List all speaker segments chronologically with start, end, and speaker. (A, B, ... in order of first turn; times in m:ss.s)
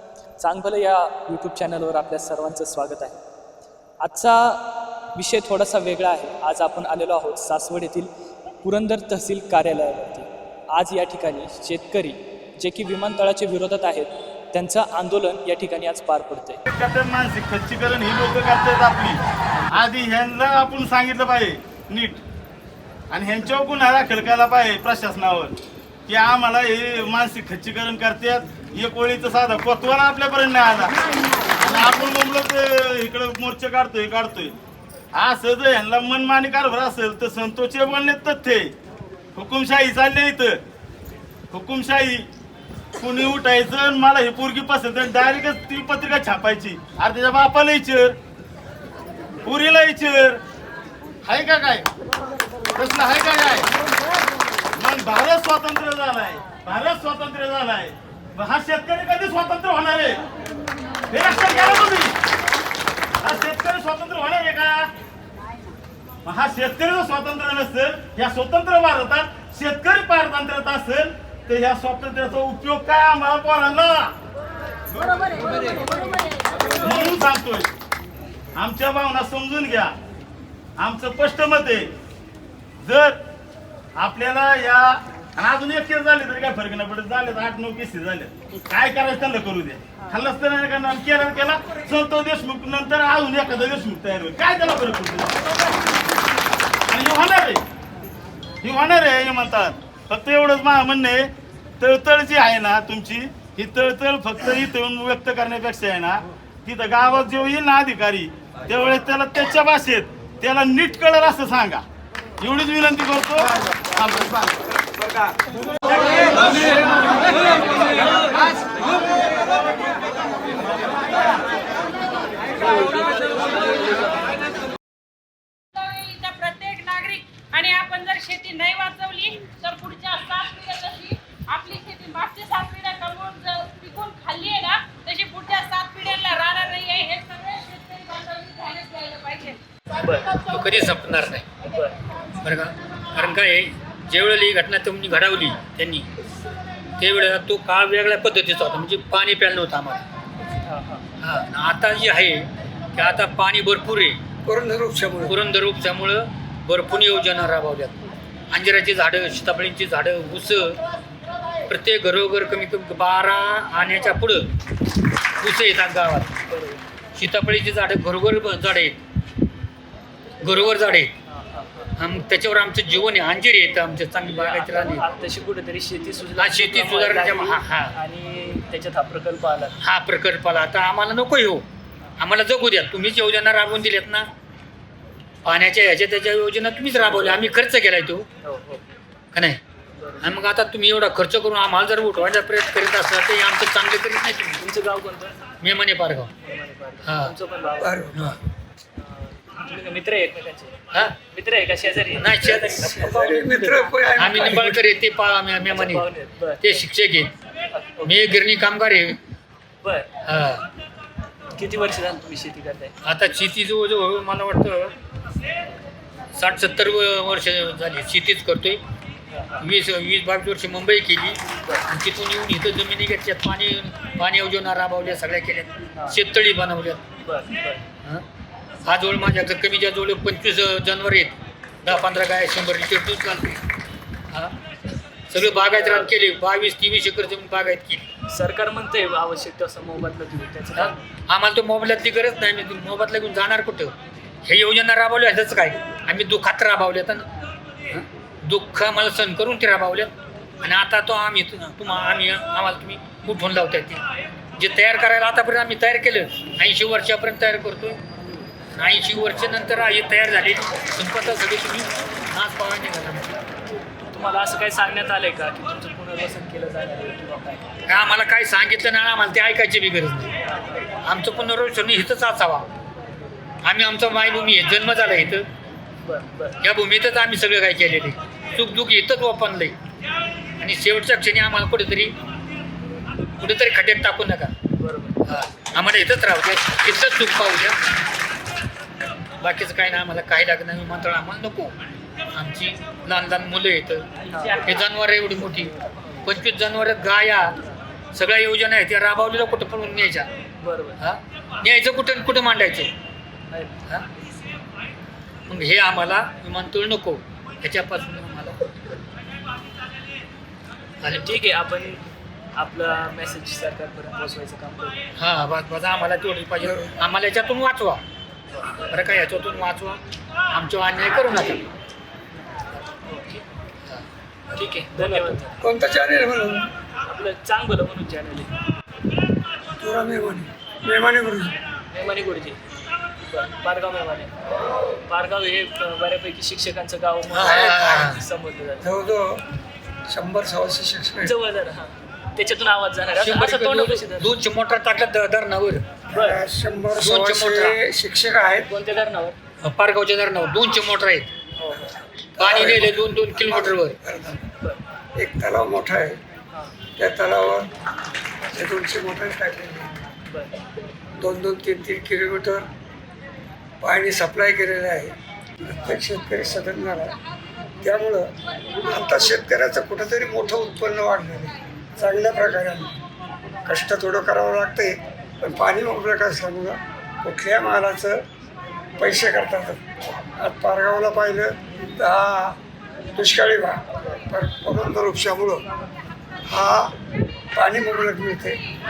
0:00.4-0:03.2 A
0:04.0-0:08.1 A
0:08.6-0:16.6 A
0:16.7-0:19.2 B
0:19.7-0:22.2 B
0:23.1-0:25.6 B
0:26.1-0:30.9 B
0:31.6-0:34.6 B
0:35.1-0:38.7 B
0:39.4-0:40.6 B
0:41.5-0:42.3 B
0:43.0-0:48.2 B
0:49.4-0:50.4 B
0:51.2-0:51.9 B
0:52.8-0:53.7 B
0:54.8-1:00.2 B
1:01.1-1:02.2 B
1:03.2-1:04.9 B
1:06.2-1:14.1 B
1:16.8-1:17.7 B
1:18.6-1:20.0 B
1:20.8-1:21.9 B
1:22.8-1:23.2 B
1:24.0-1:35.3 B
1:36.9-1:37.6 B
1:38.6-1:51.8 B
1:52.4-1:54.5 B
1:57.2-1:57.7 C
2:02.6-2:03.2 C
2:05.7-2:19.6 C
2:20.0-2:20.4 A
2:20.5-2:21.5 D
2:21.7-2:22.0 A
2:22.4-2:26.1 D
2:27.0-2:30.0 D
2:30.7-2:31.0 A
2:31.2-2:34.2 D
2:34.4-2:35.4 E
2:35.2-2:38.0 D
2:38.5-2:40.8 D
2:41.7-2:44.5 D
2:45.4-2:46.3 D
2:46.5-2:46.8 A
2:47.2-2:49.0 D
2:50.4-2:51.1 D
2:51.3-2:51.9 A
2:52.0-2:55.0 D
2:54.3-2:59.8 A
2:56.4-2:58.0 D
2:59.8-3:01.6 D
3:02.2-3:04.3 D
3:05.4-3:08.3 D
3:07.0-3:07.5 A
3:08.4-3:08.8 A
3:09.3-3:09.6 D
3:10.0-3:10.3 A
3:10.2-3:14.6 D
3:14.6-3:15.3 A
3:15.6-3:16.3 D
3:16.4-3:18.0 A
3:17.0-3:17.3 D
3:17.8-3:18.3 E
3:18.1-3:18.4 D
3:19.0-3:20.8 A
3:21.3-3:23.2 A
3:22.2-3:26.1 D
3:22.4-3:24.9 E
3:25.7-3:26.8 A
3:26.6-3:27.3 D
3:27.7-3:28.4 A
3:28.0-3:29.2 D
3:29.8-3:30.1 A
3:30.2-3:30.6 D
3:31.6-3:32.9 A
3:33.0-3:34.9 D
3:36.4-3:38.8 D
3:39.3-3:39.7 A
3:39.6-3:47.0 D
3:47.2-3:47.8 A
3:48.9-3:53.6 D
3:54.3-3:54.6 D
3:55.3-3:58.0 D
3:55.4-3:56.1 A
3:58.3-4:01.0 A
4:00.8-4:03.9 D
4:04.4-4:07.2 D
4:07.9-4:10.1 D
4:10.6-4:14.0 D
4:14.6-4:18.0 D
4:18.8-4:23.3 D
4:24.0-4:27.7 A
4:27.9-4:30.3 D
4:31.0-4:32.7 D
4:33.6-4:35.5 D
4:36.0-4:36.6 A
4:36.6-4:39.8 D
4:40.6-4:42.2 D
4:43.4-4:44.5 D
4:44.8-4:45.2 A
4:45.2-4:47.8 D
4:49.4-4:51.7 D
4:52.3-4:54.1 D
4:54.3-4:54.8 A
4:54.6-4:55.7 D
4:56.2-4:57.5 D
4:58.2-5:00.3 D
5:00.6-5:01.0 A
5:01.0-5:02.9 D
5:05.5-5:08.6 D
5:11.0-5:11.3 D
5:11.1-5:12.0 A
5:12.6-5:15.0 A
5:15.2-5:18.0 D
5:16.6-5:16.9 E
5:18.9-5:20.0 D
5:20.5-5:21.6 D
5:22.7-5:23.4 A
5:24.5-5:25.6 A
5:25.1-5:26.7 E
5:27.1-5:28.5 A
5:29.7-5:31.6 E
5:31.9-5:32.6 A
5:33.3-5:34.3 A
5:35.1-5:38.9 A
5:37.3-5:38.2 D
5:38.8-5:39.4 E
5:40.1-5:41.3 E
5:41.2-5:44.4 A
5:43.2-5:45.8 D
5:46.1-5:48.7 E
5:46.1-5:46.4 A
5:47.0-5:47.8 D
5:48.6-5:49.4 A
5:49.6-5:51.3 D
5:51.6-5:51.9 A
5:52.0-5:54.4 E
5:52.4-5:54.0 D
5:55.2-5:56.2 E
5:57.0-5:57.7 E
5:58.5-6:00.0 E
6:01.2-6:02.7 E
6:03.8-6:05.2 E
6:05.7-6:07.2 E
6:07.8-6:08.3 E
6:08.8-6:13.0 E
6:13.6-6:18.2 E
6:19.0-6:19.8 E
6:20.4-6:22.6 E
6:23.2-6:25.7 E
6:26.5-6:26.9 E
6:27.6-6:28.6 E